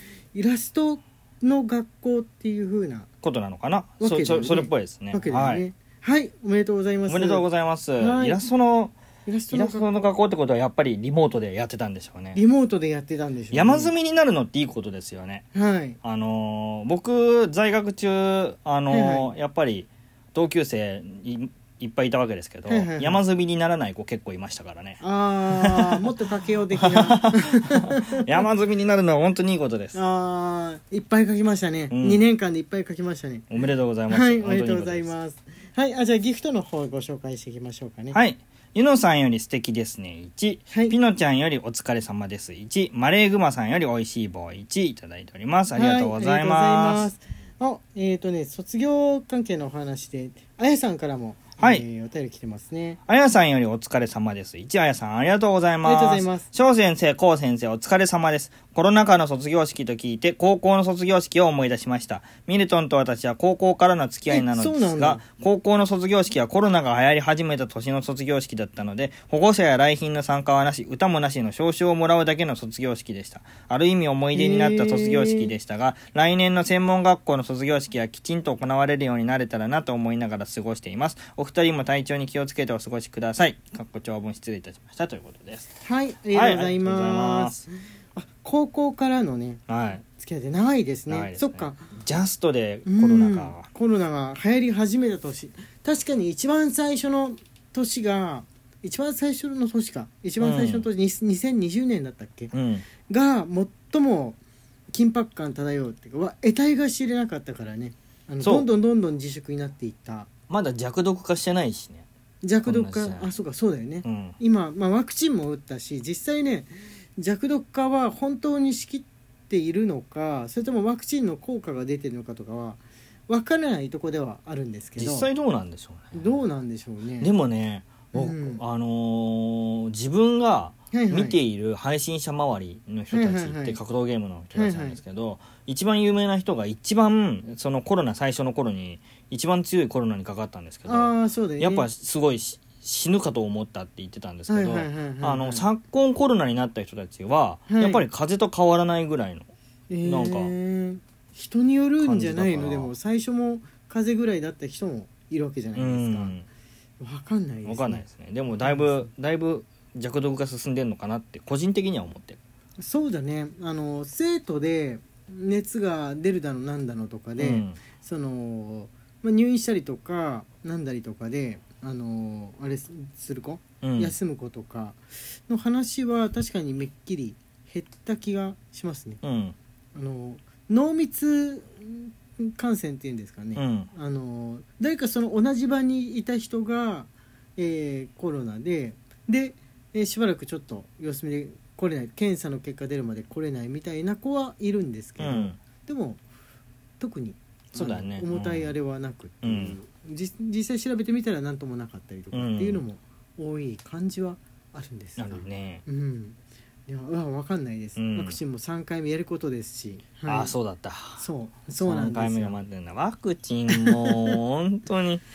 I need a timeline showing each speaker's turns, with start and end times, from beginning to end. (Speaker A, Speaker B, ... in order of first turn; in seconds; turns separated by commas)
Speaker A: 0.3-3.1, Speaker B: 3.2-5.7, Speaker A: 4.0-7.5, Speaker B: 7.1-9.0, Speaker A: 8.0-8.4, Speaker A: 9.3-10.1, Speaker B: 9.5-12.4, Speaker A: 12.3-13.9, Speaker B: 13.5-15.5, Speaker A: 15.5-16.0, Speaker B: 16.0-26.1, Speaker A: 18.9-19.3, Speaker A: 22.7-23.2, Speaker A: 25.0-28.1, Speaker B: 26.8-30.0, Speaker A: 29.9-33.5, Speaker B: 31.9-32.2, Speaker B: 33.5-35.1, Speaker A: 34.1-38.2, Speaker B: 38.1-47.1, Speaker A: 45.7-53.0, Speaker B: 51.6-51.9, Speaker B: 53.1-85.7, Speaker A: 55.8-56.5, Speaker A: 64.3-65.2, Speaker A: 74.3-75.5, Speaker A: 85.8-91.8, Speaker B: 86.3-87.7, Speaker B: 89.7-90.0, Speaker B: 91.1-93.7, Speaker A: 92.9-102.5, Speaker B: 100.4-100.9, Speaker B: 102.5-102.9, Speaker A: 103.1-104.4, Speaker A: 104.9-110.3, Speaker B: 108.4-108.7, Speaker B: 110.5-112.1, Speaker A: 112.4-125.3, Speaker B: 112.7-113.3, Speaker B: 114.0-114.4, Speaker B: 125.0-126.4, Speaker A: 126.1-127.3, Speaker B: 127.2-149.5, Speaker A: 128.1-128.6, Speaker A: 130.9-131.4, Speaker A: 133.1-133.8, Speaker A: 134.5-135.0, Speaker A: 140.9-141.9, Speaker A: 144.5-145.7, Speaker A: 147.7-148.1, Speaker A: 149.9-156.3, Speaker B: 150.0-150.5, Speaker B: 152.0-152.9, Speaker B: 155.8-156.5, Speaker A: 157.0-158.1, Speaker B: 157.7-162.4, Speaker A: 158.6-159.1, Speaker A: 162.8-179.2, Speaker B: 167.4-167.8, Speaker B: 173.8-174.1, Speaker B: 179.2-179.6, Speaker A: 179.9-196.2, Speaker B: 183.6-183.9, Speaker B: 195.2-195.6, Speaker A: 197.0-206.4, Speaker B: 197.8-198.7, Speaker B: 199.4-199.8, Speaker B: 202.3-202.8, Speaker B: 205.2-205.8, Speaker A: 206.9-210.5, Speaker B: 208.0-208.4, Speaker B: 210.3-211.2, Speaker A: 211.2-212.6, Speaker B: 211.8-215.2, Speaker A: 213.7-214.4